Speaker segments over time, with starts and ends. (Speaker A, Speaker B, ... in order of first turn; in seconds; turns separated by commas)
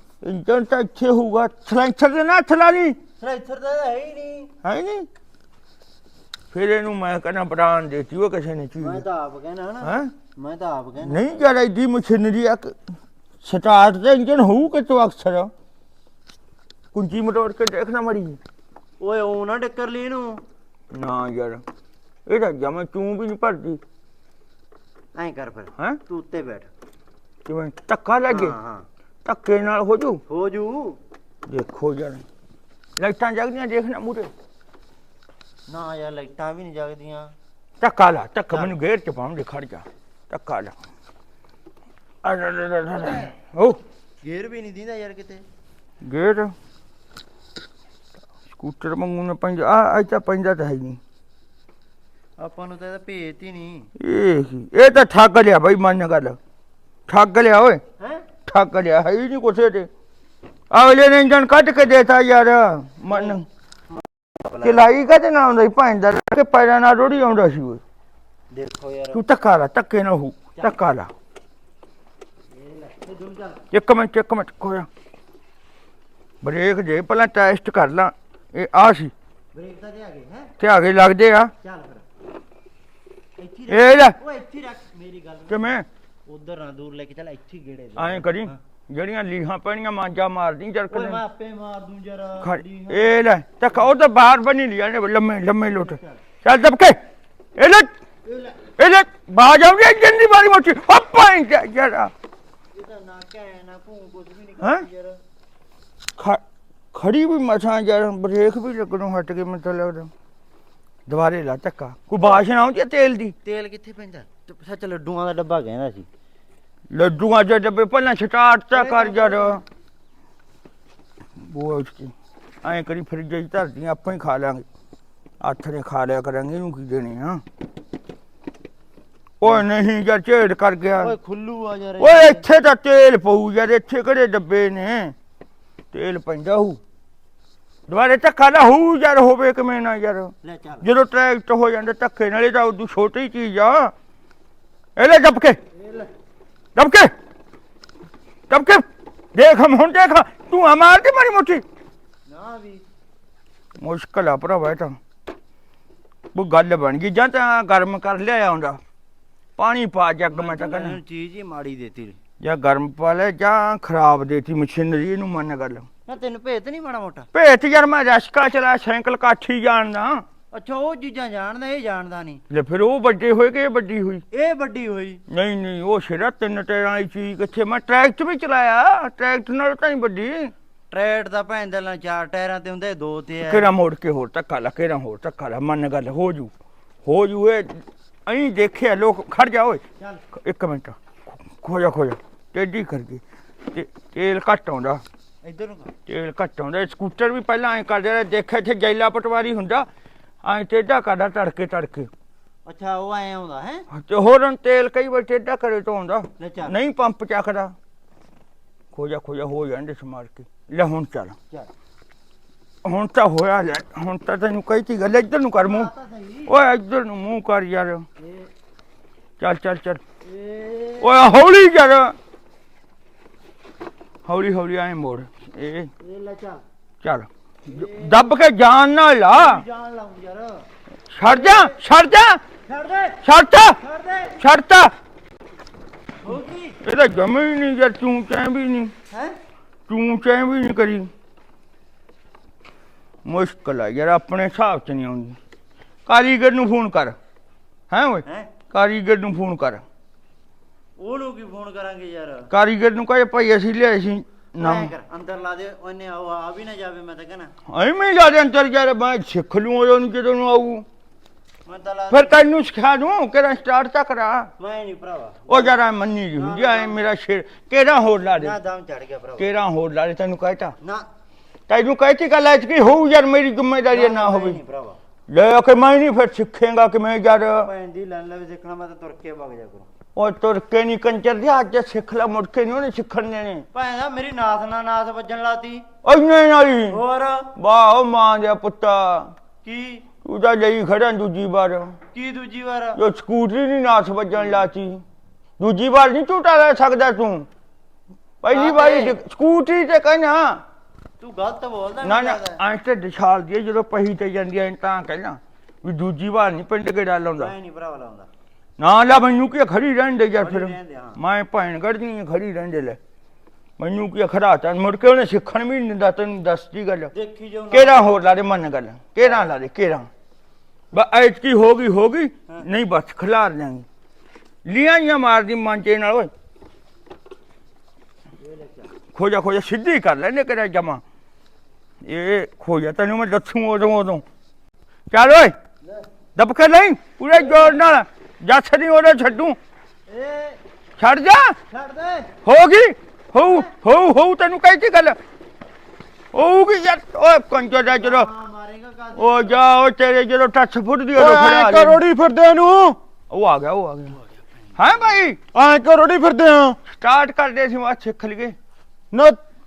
Speaker A: 0.2-3.0, Speaker B: 3.2-4.5, Speaker A: 4.6-5.1, Speaker A: 6.5-9.0, Speaker B: 8.8-11.3, Speaker A: 9.8-10.1, Speaker A: 11.0-12.8, Speaker A: 13.4-15.5, Speaker A: 16.9-18.4, Speaker B: 19.0-20.4, Speaker A: 20.9-21.6, Speaker A: 22.3-23.8, Speaker B: 25.1-26.7, Speaker A: 27.5-28.6, Speaker B: 28.3-28.9, Speaker A: 29.2-30.2, Speaker B: 30.3-31.0, Speaker A: 31.5-32.2, Speaker A: 33.0-34.3, Speaker B: 35.7-37.3, Speaker A: 37.8-40.8, Speaker A: 42.2-43.8, Speaker B: 42.9-43.3, Speaker B: 44.2-45.5, Speaker A: 46.0-46.5, Speaker A: 48.5-51.0, Speaker B: 52.4-53.9, Speaker A: 54.0-56.4, Speaker A: 57.1-57.8, Speaker B: 58.0-58.3, Speaker A: 58.5-59.9, Speaker A: 60.7-63.5, Speaker B: 63.1-63.4, Speaker B: 64.4-64.8, Speaker A: 64.6-67.8, Speaker B: 68.5-69.2, Speaker A: 69.1-71.1, Speaker B: 72.5-73.6, Speaker A: 73.7-74.9, Speaker A: 76.4-79.1, Speaker B: 79.5-80.5, Speaker A: 80.6-81.5, Speaker B: 81.6-82.0, Speaker B: 83.4-88.6, Speaker A: 83.7-84.2, Speaker A: 85.5-85.8, Speaker A: 88.0-91.2, Speaker B: 90.9-93.2, Speaker A: 92.4-97.0, Speaker B: 95.8-96.2, Speaker A: 97.6-97.9, Speaker B: 98.2-98.6, Speaker A: 98.8-102.1, Speaker B: 102.7-105.2, Speaker A: 106.9-110.1, Speaker A: 111.1-113.3, Speaker B: 113.4-116.1, Speaker A: 116.9-119.6, Speaker B: 118.7-119.6, Speaker A: 121.4-124.7, Speaker A: 125.4-127.4, Speaker A: 129.4-131.1, Speaker B: 131.0-132.4, Speaker A: 132.0-135.1, Speaker A: 135.9-136.8, Speaker A: 137.9-143.9, Speaker B: 140.4-140.9, Speaker A: 145.0-145.6, Speaker B: 145.7-146.1, Speaker A: 146.8-147.1, Speaker A: 148.5-151.6, Speaker B: 152.3-152.8, Speaker A: 153.8-155.0, Speaker A: 156.3-158.8, Speaker A: 159.6-161.0, Speaker B: 160.3-162.2, Speaker A: 162.4-165.9, Speaker B: 166.1-167.3, Speaker A: 167.3-170.2, Speaker B: 170.5-172.4, Speaker A: 172.5-174.2, Speaker B: 174.3-175.2, Speaker A: 175.3-180.5, Speaker B: 180.9-183.7, Speaker A: 183.4-186.5, Speaker A: 187.1-189.8, Speaker A: 190.3-193.2, Speaker A: 193.7-195.0, Speaker B: 195.4-195.9, Speaker A: 196.1-199.9, Speaker A: 200.4-202.1, Speaker B: 202.7-203.8, Speaker A: 203.9-207.7, Speaker B: 206.4-206.7, Speaker A: 208.9-211.4, Speaker A: 212.8-215.9, Speaker B: 215.6-216.5, Speaker A: 216.5-218.1, Speaker B: 218.2-218.5, Speaker A: 219.4-220.0, Speaker B: 220.2-221.1, Speaker A: 221.0-222.2, Speaker A: 224.3-225.9, Speaker B: 226.0-226.6, Speaker A: 227.0-229.6, Speaker B: 227.7-228.3, Speaker B: 229.3-230.7, Speaker A: 231.1-232.4, Speaker B: 231.2-231.8, Speaker B: 232.7-233.2, Speaker A: 233.2-233.8, Speaker B: 233.8-234.4, Speaker A: 234.4-234.9, Speaker B: 236.2-236.8, Speaker A: 236.8-238.9, Speaker B: 239.1-239.4, Speaker A: 239.9-241.1, Speaker A: 243.2-245.4, Speaker A: 246.1-247.2, Speaker A: 247.9-249.8, Speaker B: 248.2-248.5, Speaker B: 251.0-252.5, Speaker A: 252.5-254.9, Speaker B: 254.6-257.5, Speaker A: 257.7-260.9, Speaker B: 261.7-262.4, Speaker A: 262.1-264.5, Speaker B: 264.6-265.7, Speaker A: 265.5-268.6, Speaker B: 266.4-267.0, Speaker B: 268.4-269.5, Speaker A: 269.4-270.8, Speaker B: 270.8-271.1, Speaker A: 271.7-274.6, Speaker B: 273.9-275.0, Speaker A: 275.3-277.7, Speaker B: 277.6-279.9, Speaker A: 280.2-283.7, Speaker B: 283.7-285.9, Speaker A: 286.0-287.0, Speaker B: 286.9-287.5, Speaker A: 287.6-289.3, Speaker B: 289.6-290.1, Speaker A: 290.2-292.0, Speaker B: 292.1-293.0, Speaker A: 293.0-295.0, Speaker A: 295.6-297.5, Speaker A: 298.4-300.6, Speaker B: 298.5-299.2, Speaker B: 301.2-302.6, Speaker A: 302.0-307.5, Speaker B: 307.4-308.3, Speaker A: 308.8-313.0, Speaker B: 310.4-311.2, Speaker A: 313.8-317.1, Speaker B: 317.1-318.1, Speaker A: 317.7-320.1, Speaker A: 320.9-323.9, Speaker A: 324.6-326.3, Speaker B: 328.4-328.9, Speaker A: 329.1-331.0, Speaker A: 332.0-334.2, Speaker A: 335.1-335.5, Speaker A: 336.4-339.6, Speaker B: 337.3-337.8, Speaker B: 340.1-340.6, Speaker A: 341.0-341.6, Speaker B: 341.7-342.3, Speaker A: 342.4-345.2, Speaker B: 343.4-343.7, Speaker A: 346.3-348.3, Speaker B: 347.9-349.6, Speaker A: 349.2-352.0, Speaker C: 351.1-353.0, Speaker A: 353.3-354.1, Speaker A: 354.8-355.4, Speaker C: 355.5-356.8, Speaker A: 356.9-358.6, Speaker C: 359.1-359.4